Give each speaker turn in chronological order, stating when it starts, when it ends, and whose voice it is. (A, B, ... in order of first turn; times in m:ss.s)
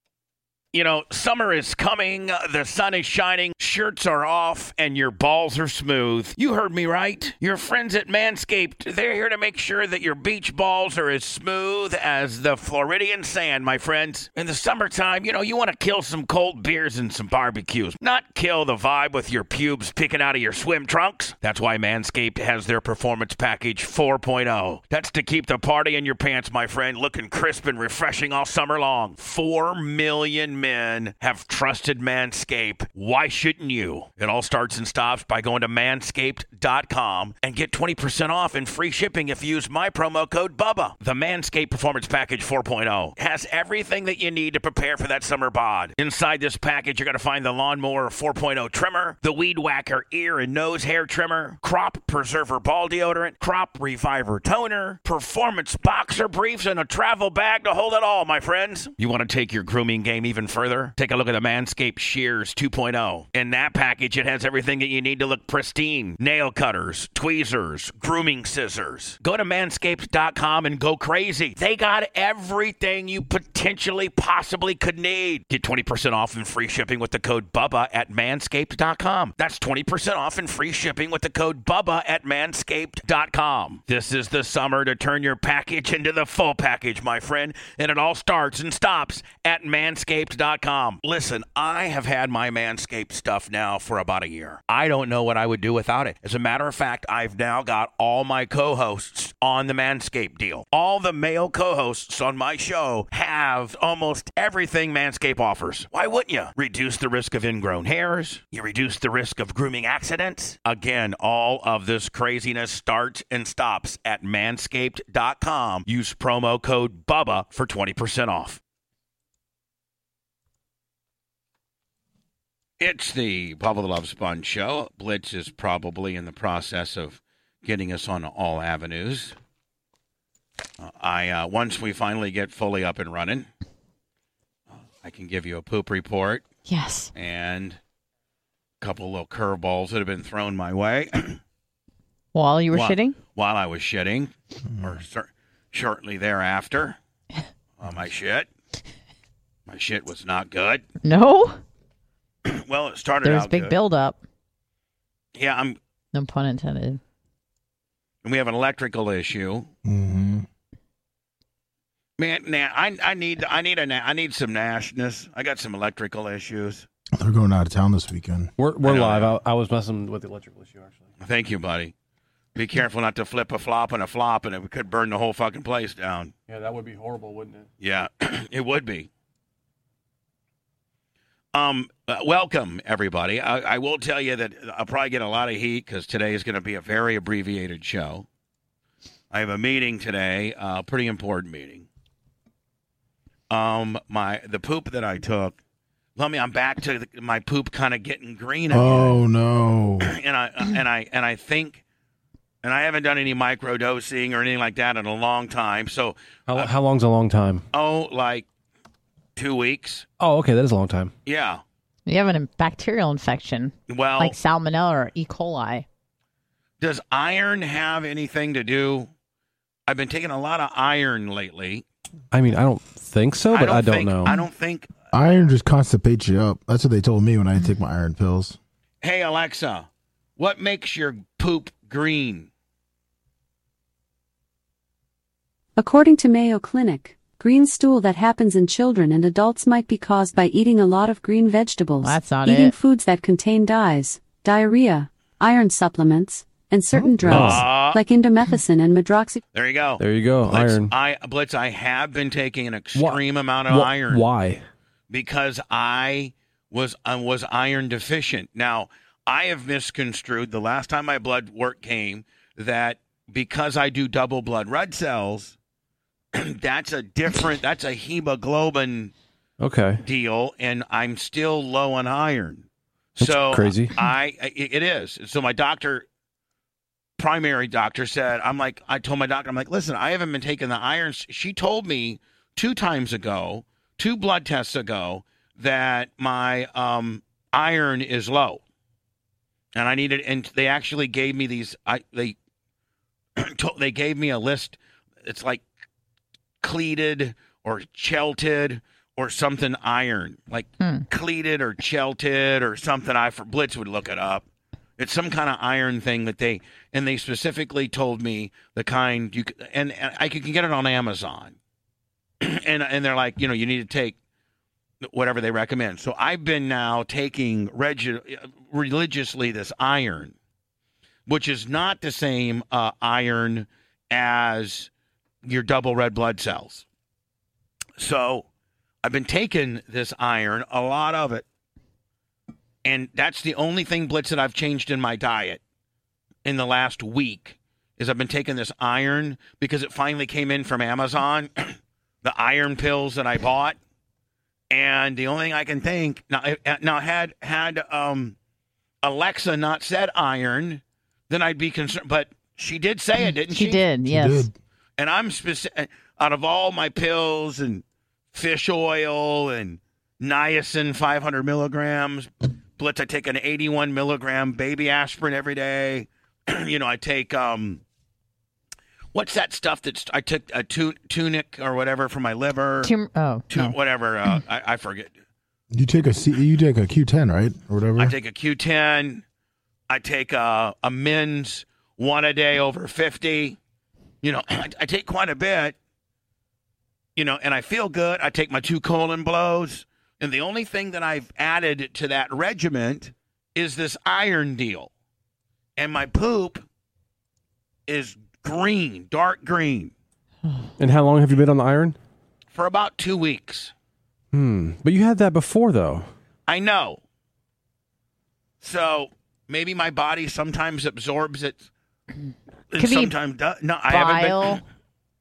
0:00.7-1:58.6 A
2:02.8-2:09.4 A
2:10.8-2:13.5 A
2:14.7-2:16.4 A
2:16.7-2:17.1 B
2:17.1-2:17.8 A
2:18.8-2:21.4 A
2:22.3-2:23.2 B
2:22.7-2:27.0 A
2:24.7-2:25.0 C
2:27.8-2:28.5 A
2:29.7-2:30.8 A
2:31.0-2:31.6 B
2:32.4-2:33.8 A
2:33.2-2:34.2 B
2:35.3-2:35.8 A
2:36.1-2:37.0 B
2:38.2-2:39.7 A
2:39.8-2:40.5 C
2:42.2-2:46.9 A
2:47.1-2:48.5 C
2:48.6-2:51.0 D
2:48.8-2:49.4 A
2:51.2-2:51.9 A
2:52.6-2:56.3 A
2:56.5-2:57.7 D
2:57.8-2:59.1 A
3:01.5-3:08.3 A
3:09.3-3:11.9 A
3:13.5-3:15.6 A
3:16.2-3:19.2 A
3:18.7-3:20.2 C
3:20.0-3:21.8 A
3:22.6-3:26.7 A
3:26.5-3:27.6 D
3:27.7-3:28.5 A
3:29.4-3:30.0 A
3:30.2-3:31.1 D
3:31.3-3:31.6 A
3:32.1-3:35.8 B
3:33.9-3:34.4 A
3:36.8-3:39.1 A
3:39.9-3:41.8 A
3:42.3-3:44.3 D
3:43.5-3:44.9 A
3:45.1-3:48.6 C
3:49.0-3:52.5 A
3:55.8-4:09.4 E
4:02.0-4:02.7 B
4:07.2-4:07.7 D
4:07.2-4:08.0 A
4:09.5-4:14.3 A
4:10.0-4:10.9 D
4:13.0-4:14.6 D
4:15.1-4:25.6 A
4:26.3-4:29.1 A
4:29.6-4:30.0 D
4:30.0-4:32.7 A
4:33.2-4:36.0 A
4:33.2-4:33.9 D
4:37.2-4:48.6 A
4:49.8-4:52.4 A
4:53.4-4:55.6 A
4:56.6-5:04.4 A
5:00.8-5:01.0 B
5:05.0-5:11.6 A
5:12.4-5:14.2 A
5:15.0-5:20.4 A
5:21.3-5:24.9 A
5:25.4-5:26.8 A
5:28.0-5:28.5 A
5:29.0-5:31.4 A
5:32.8-5:35.6 A
5:36.4-5:43.8 A
5:44.7-5:48.4 A
5:49.0-5:53.8 A
5:53.5-5:54.5 B
5:54.1-5:54.5 C
5:55.0-6:07.8 A
6:09.1-6:12.9 A
6:12.8-6:13.7 B
6:13.5-6:15.1 A
6:15.7-6:18.2 C
6:18.0-6:19.2 A
6:19.9-6:23.6 A
6:24.2-6:25.8 A
6:27.2-6:34.9 A
6:35.8-6:36.6 A
6:37.9-6:39.9 A
6:40.8-6:42.0 D
6:42.5-6:43.7 A
6:44.3-6:46.1 D
6:46.5-6:47.0 A
6:48.6-6:51.7 A
6:52.7-6:54.6 A
6:52.8-6:53.1 B
6:53.9-6:54.6 B